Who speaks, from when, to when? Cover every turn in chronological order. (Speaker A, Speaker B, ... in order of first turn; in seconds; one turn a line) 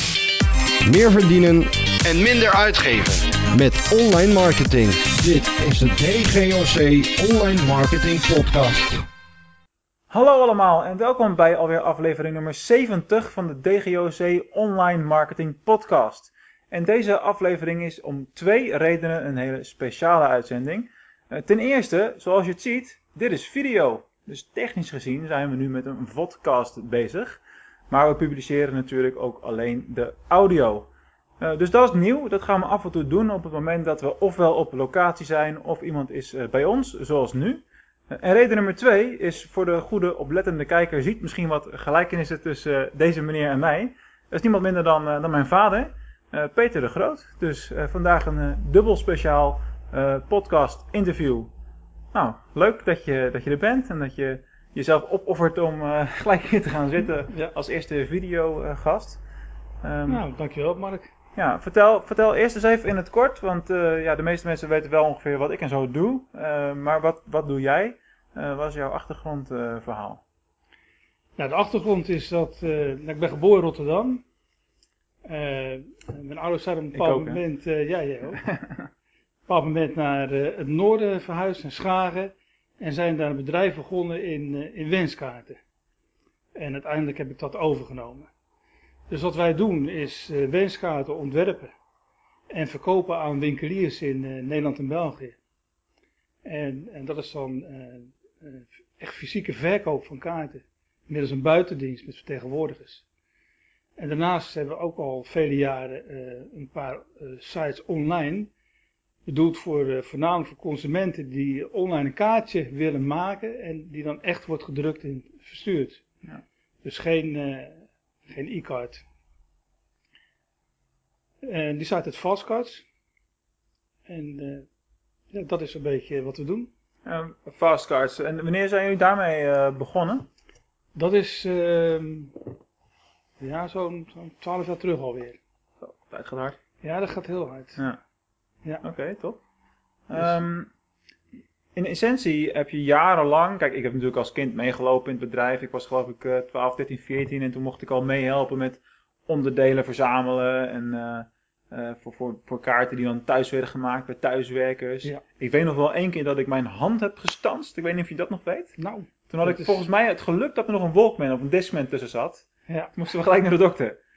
Speaker A: 0.8-9.1
Speaker B: 10.1-51.5
Speaker B: 52.1-59.2
Speaker B: 59.8-60.2
Speaker C: 60.1-61.1
Speaker B: 61.4-70.2
Speaker C: 71.4-74.2
Speaker C: 75.2-78.4
Speaker B: 76.9-77.4
Speaker B: 78.4-78.9
Speaker C: 79.5-85.6
Speaker C: 86.5-88.3
Speaker C: 89.1-91.7
Speaker C: 92.5-95.4
Speaker C: 96.5-103.0
Speaker C: 104.0-108.5
Speaker C: 109.3-116.0
Speaker C: 116.8-119.0
Speaker C: 121.4-122.8
Speaker C: 124.1-124.7
Speaker C: 125.3-126.7
Speaker B: 127.0-130.3
Speaker C: 130.9-132.4
Speaker C: 133.4-135.4
Speaker B: 135.8-136.6
Speaker C: 136.8-137.8
Speaker B: 138.8-139.4
Speaker B: 140.1-140.7
Speaker B: 141.8-158.8
Speaker C: 158.8-159.8
Speaker B: 159.3-164.0
Speaker C: 162.7-162.9